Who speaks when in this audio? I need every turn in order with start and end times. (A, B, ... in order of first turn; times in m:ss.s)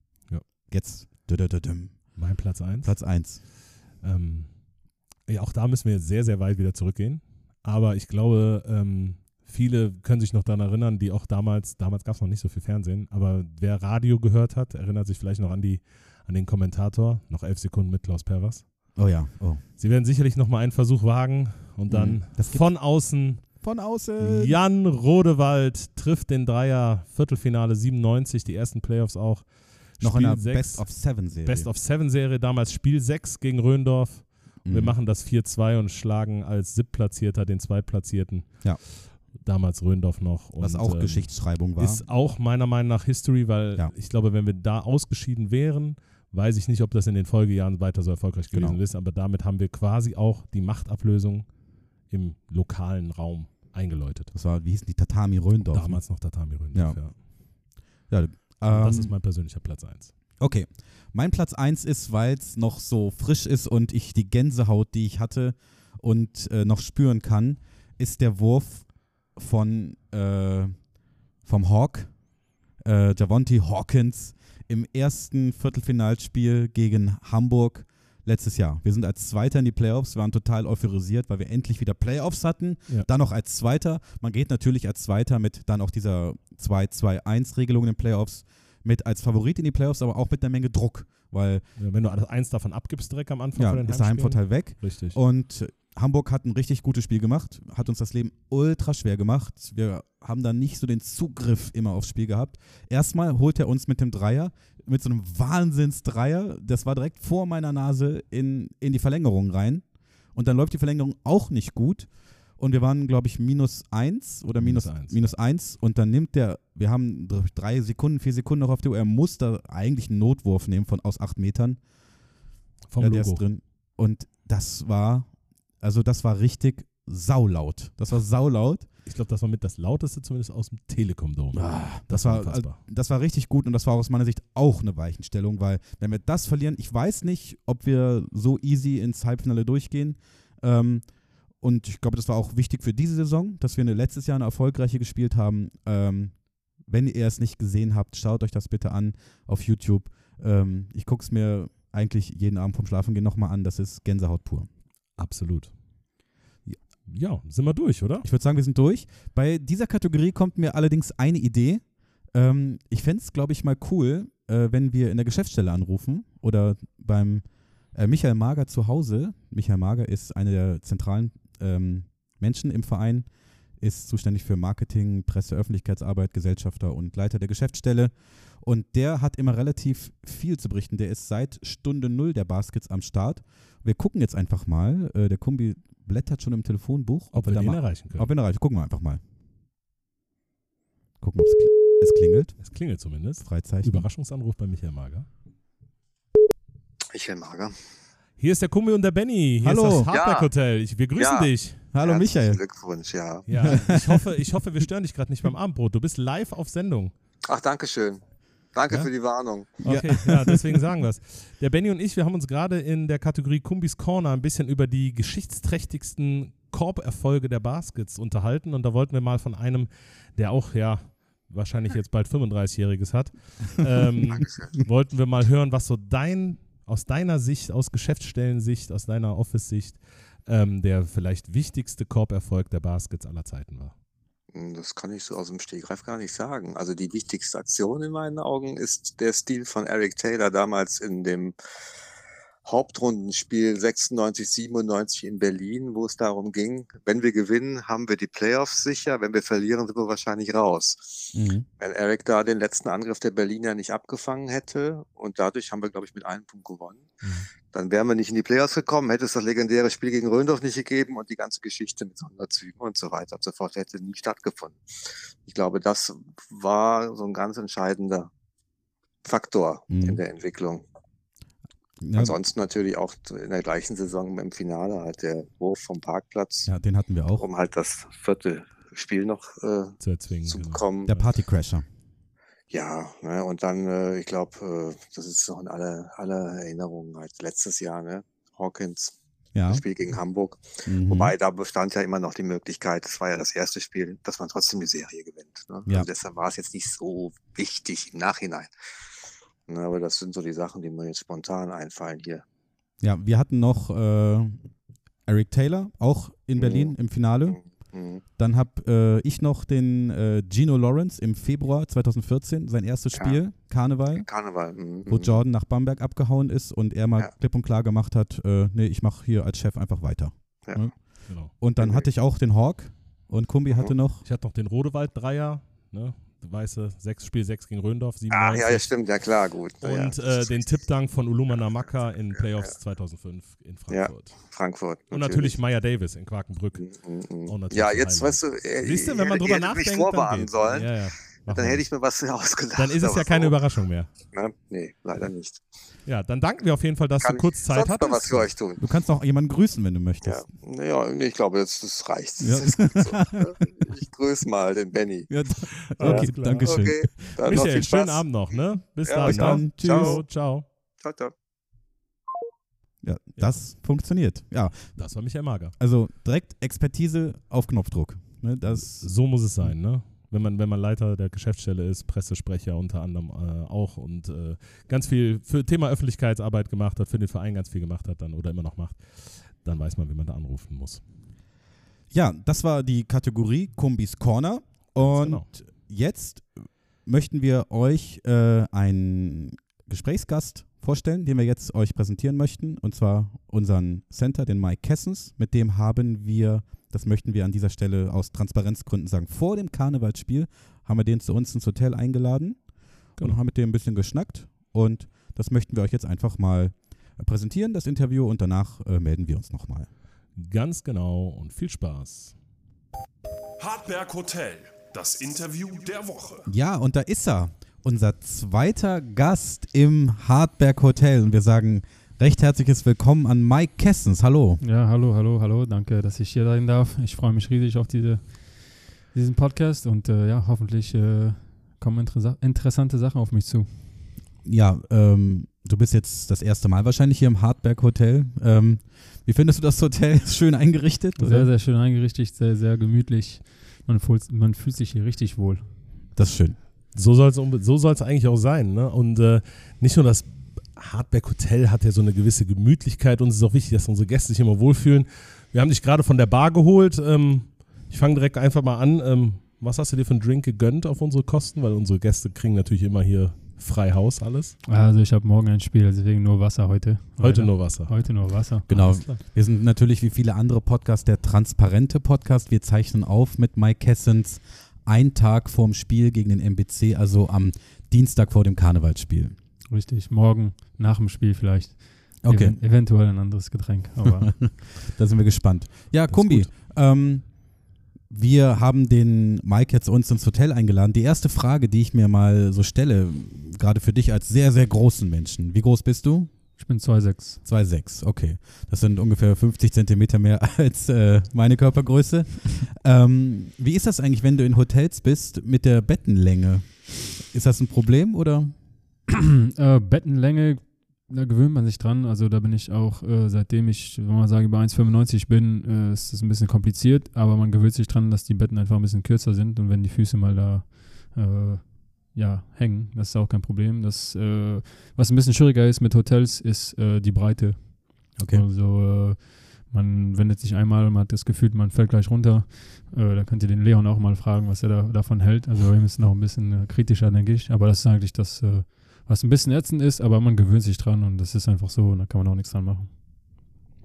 0:00.7-0:03.4 A
0:02.2-0:19.0 B
0:18.9-0:19.6 A
0:19.8-0:23.6 B
0:21.9-0:24.6 A
0:24.2-0:51.5 B
0:30.0-0:31.7 A
0:34.6-0:34.9 A
0:40.6-0:42.0 A
0:48.5-0:48.8 A
0:52.1-0:54.3 B
0:54.3-0:57.3 A
0:55.7-0:57.2 B
0:58.1-0:59.1 A
0:58.6-1:00.1 B
1:00.4-1:10.8 A
1:11.4-1:12.2 A
1:12.8-1:31.6 A
1:31.8-1:35.2 B
1:33.6-2:01.8 A
1:54.6-1:55.3 B
2:02.9-2:03.5 B
2:03.0-2:08.9 A
2:09.0-2:12.8 B
2:11.5-2:34.7 A
2:35.2-2:35.7 B
2:37.0-2:38.2 B
2:38.2-2:53.3 A
2:53.8-3:09.2 A
3:07.3-3:08.3 B
3:11.2-3:14.1 A
3:12.6-3:15.3 B
3:17.1-3:17.8 C
3:18.4-3:21.8 B
3:19.6-3:20.1 A
3:20.1-3:20.5 C
3:21.2-3:23.8 C
3:21.9-3:22.6 A
3:23.4-3:27.1 B
3:23.6-3:24.1 A
3:27.4-3:29.8 C
3:29.8-3:30.6 A
3:29.8-3:53.9 B
3:44.3-3:44.8 C
3:54.5-4:01.5 C
4:02.6-4:28.3 C
4:11.3-4:11.6 A
4:29.2-4:30.8 C
4:29.9-4:30.2 A
4:32.0-4:32.3 A
4:32.1-4:36.7 C
4:36.7-4:37.4 A
4:37.3-4:41.2 C
4:40.0-4:41.2 B
4:41.0-4:41.8 A
4:42.7-4:58.7 C
4:49.5-4:49.8 A
4:50.8-4:51.3 A
4:59.7-5:02.4 C
5:03.0-5:04.7 A
5:05.2-5:07.6 A
5:06.6-5:07.0 C
5:07.5-5:08.2 C
5:08.4-5:14.3 A
5:13.1-5:13.4 C
5:14.1-5:15.4 C
5:15.0-5:24.2 A
5:20.6-5:21.0 C
5:21.2-5:21.5 B
5:21.8-5:22.1 C
5:24.2-5:28.9 B
5:28.3-5:30.9 C
5:29.8-5:34.4 B
5:31.5-5:32.7 C
5:33.9-5:35.6 C
5:35.1-5:36.8 B
5:36.8-5:43.6 C
5:37.4-5:41.9 B
5:42.7-5:44.1 B
5:44.2-5:45.6 C
5:46.0-5:48.5 B
5:47.2-5:48.9 C
5:48.8-5:50.4 A
5:50.2-5:55.3 C
5:52.4-5:53.5 A
5:55.3-5:57.2 A
5:56.0-5:56.8 B
5:56.0-6:00.3 C
5:57.4-6:00.6 B
5:59.2-6:00.2 A
6:01.0-6:01.3 C
6:03.0-6:09.7 A
6:03.4-6:03.6 B
6:05.0-6:05.8 B
6:09.0-6:21.0 B
6:22.1-6:49.9 A
6:25.0-6:25.5 B
6:50.4-6:52.4 B
6:53.6-6:56.5 D
6:56.4-7:04.6 A
7:04.6-7:13.8 E
7:14.4-7:21.5 A
7:21.2-7:25.8 E
7:26.1-7:26.6 A
7:26.9-7:44.6 B
7:44.6-7:49.0 E
7:47.2-7:49.2 B
7:48.7-7:59.4 A
7:59.6-8:04.6 E
8:02.2-8:02.6 A
8:04.3-8:16.4 A
8:06.1-8:06.5 B
8:16.6-8:17.4 E
8:17.4-8:28.6 A
8:29.1-9:02.9 E
8:48.2-8:48.4 A